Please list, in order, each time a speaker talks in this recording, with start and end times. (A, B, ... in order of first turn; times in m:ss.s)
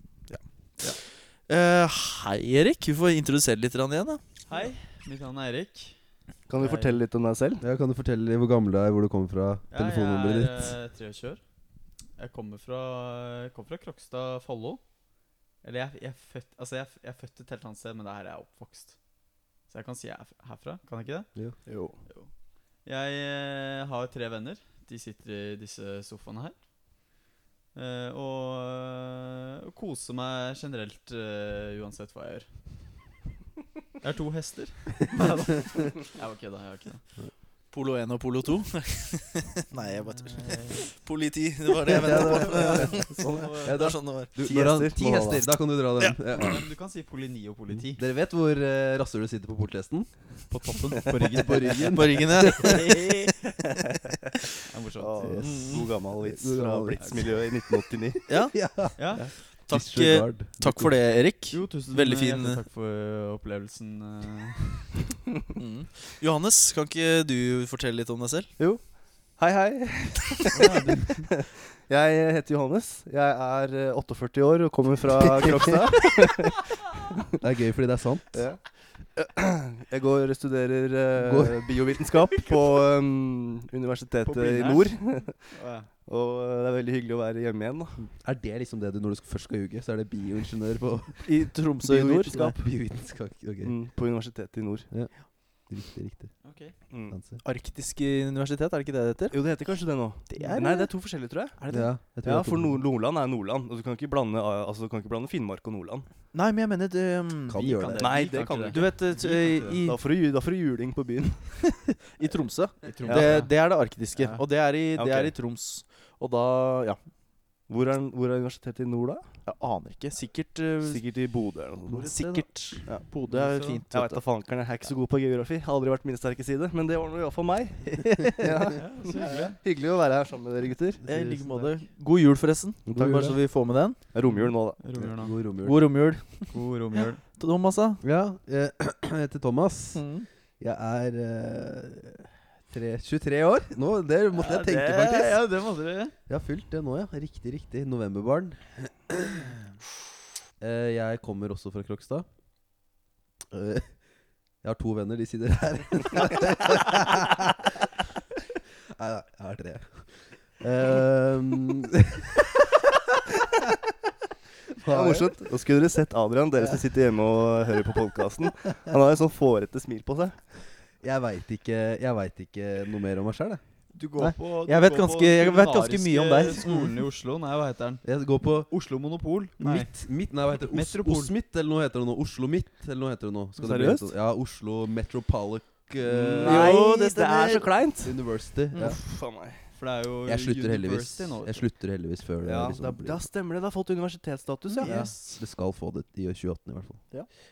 0:00.3-0:01.0 A
0:00.8-0:04.2 B
0:04.5-0:06.0 C
0:06.5-0:07.6 A
0:06.6-0:07.0 C
0:07.6-0:10.7 D
0:09.7-0:11.4 C
0:12.2-0:14.8 C
0:15.6-0:19.0 C
0:19.7-0:21.3 C
0:21.7-0:22.0 A
0:22.8-0:26.6 C
0:27.7-0:32.5 C
0:34.0-0:37.0 C
0:37.7-0:44.3 B
0:39.9-0:40.8 C
0:41.9-0:46.6 D
0:44.4-0:45.4 A
0:46.4-0:48.0 C
0:47.7-0:50.1 D
0:50.5-0:52.0 C
0:51.2-0:52.9 D
0:51.9-0:53.2 B
0:54.7-0:55.8 C
0:55.0-0:58.2 A
0:55.2-0:57.4 D
0:57.0-0:57.3 C
0:58.3-1:02.6 B
0:58.5-0:59.0 D
0:59.0-0:59.3 C
0:59.7-1:01.0 D
1:01.5-1:05.0 C
1:05.6-1:08.5 B
1:08.6-1:17.2 A
1:10.5-1:11.3 C
1:15.1-1:16.0 D
1:17.4-1:18.4 D
1:18.3-1:18.6 A
1:19.2-1:28.0 A
1:21.2-1:21.6 D
1:24.2-1:25.9 C
1:28.0-1:33.7 D
1:31.2-1:32.6 B
1:33.6-1:34.9 A
1:34.9-1:36.3 D
1:36.4-1:36.7 C
1:36.9-1:37.2 A
1:37.1-1:37.4 D
1:37.4-1:39.4 B
1:39.3-1:41.6 A
1:40.2-1:41.0 B
1:41.6-1:41.9 B
1:41.7-1:42.8 D
1:42.2-1:46.0 A
1:46.3-1:47.9 B
1:47.5-1:48.2 D
1:47.7-1:49.8 C
1:48.0-1:49.0 A
1:48.7-1:50.0 B
1:49.8-1:52.0 A
1:52.1-1:57.0 B
1:52.8-1:53.5 C
1:53.0-1:53.5 A
1:54.9-1:55.3 A
1:57.7-1:59.3 A
1:59.4-2:01.0 B
2:00.8-2:02.1 A
2:01.9-2:02.8 D
2:02.0-2:04.2 B
2:02.8-2:11.7 A
2:08.0-2:08.6 B
2:08.8-2:09.6 C
2:11.0-2:14.0 B
2:12.9-2:13.4 D
2:14.1-2:14.8 A
2:14.2-2:15.3 C
2:15.0-2:15.8 D
2:15.6-2:18.0 B
2:16.5-2:17.2 C
2:18.0-2:20.0 D
2:19.9-2:20.3 B
2:20.6-2:25.4 D
2:24.3-2:26.1 C
2:26.3-2:29.6 D
2:30.6-2:32.2 D
2:33.5-2:33.9 D
2:34.6-2:37.9 D
2:39.0-2:42.6 D
2:44.8-2:45.5 D
2:44.9-2:50.4 A
2:51.0-2:53.6 D
2:53.9-2:58.0 C
2:54.2-2:56.9 B
2:58.0-2:58.7 D
2:58.7-2:59.9 C
2:59.6-3:06.9 D
3:00.6-3:01.3 C
3:03.6-3:04.0 A
3:06.0-3:08.2 A
3:06.4-3:07.7 B
3:08.0-3:09.0 D
3:08.7-3:09.0 B
3:08.8-3:09.6 A
3:09.8-3:11.6 C
3:10.2-3:13.2 D
3:12.4-3:15.1 A
3:14.8-3:15.4 B
3:14.8-3:17.0 D